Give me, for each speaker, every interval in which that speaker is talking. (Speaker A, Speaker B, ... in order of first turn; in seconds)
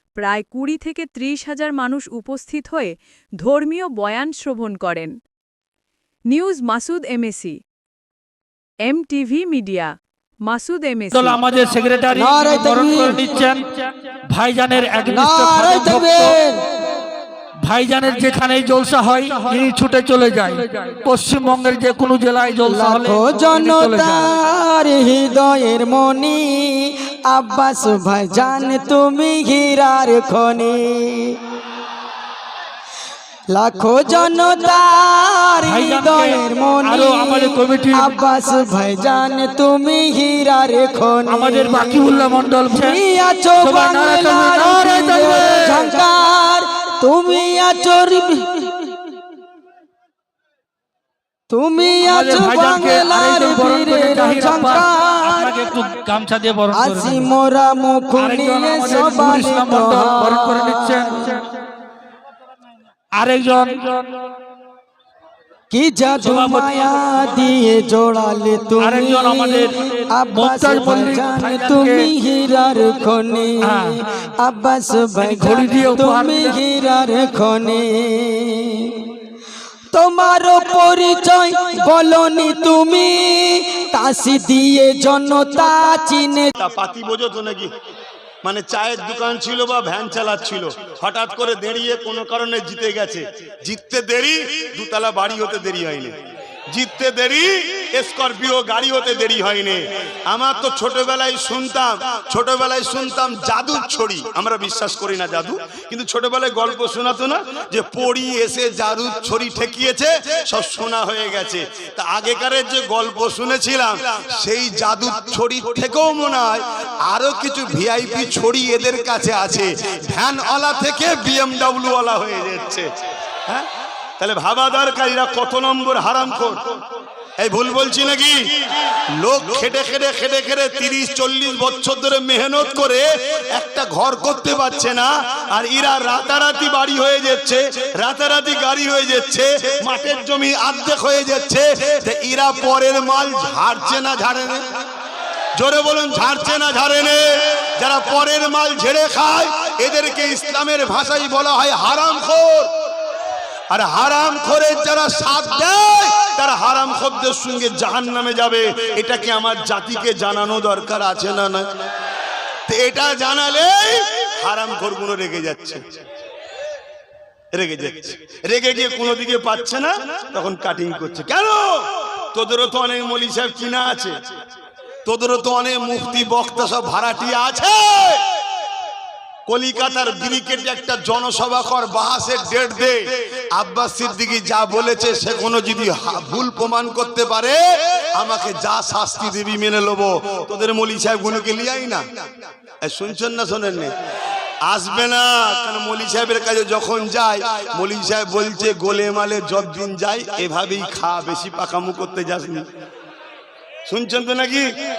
Speaker A: 0.2-5.2, 6.3-7.6, 8.8-11.4
Speaker B: 11.1-13.7, 14.3-16.4, 17.6-24.3, 35.6-38.2, 41.3-43.0, 43.6-46.0, 52.0-57.3, 58.2-61.5, 63.2-64.1, 66.1-67.1, 68.8-72.1, 73.6-74.2, 75.2-76.6
Speaker C: 12.1-13.2, 15.1-16.6, 22.7-31.4, 33.5-48.8, 51.5-55.6, 56.7-61.4, 65.7-79.1, 79.9-86.5
Speaker D: 86.6-87.7, 88.4-96.2, 96.7-122.9, 124.2-126.8, 127.4-144.6, 145.6-152.7, 153.7-161.7, 162.7-165.8, 167.5-174.1, 175.1-178.2, 179.5-183.0, 183.5-192.2, 192.8-193.9, 194.7-202.7, 203.9-204.7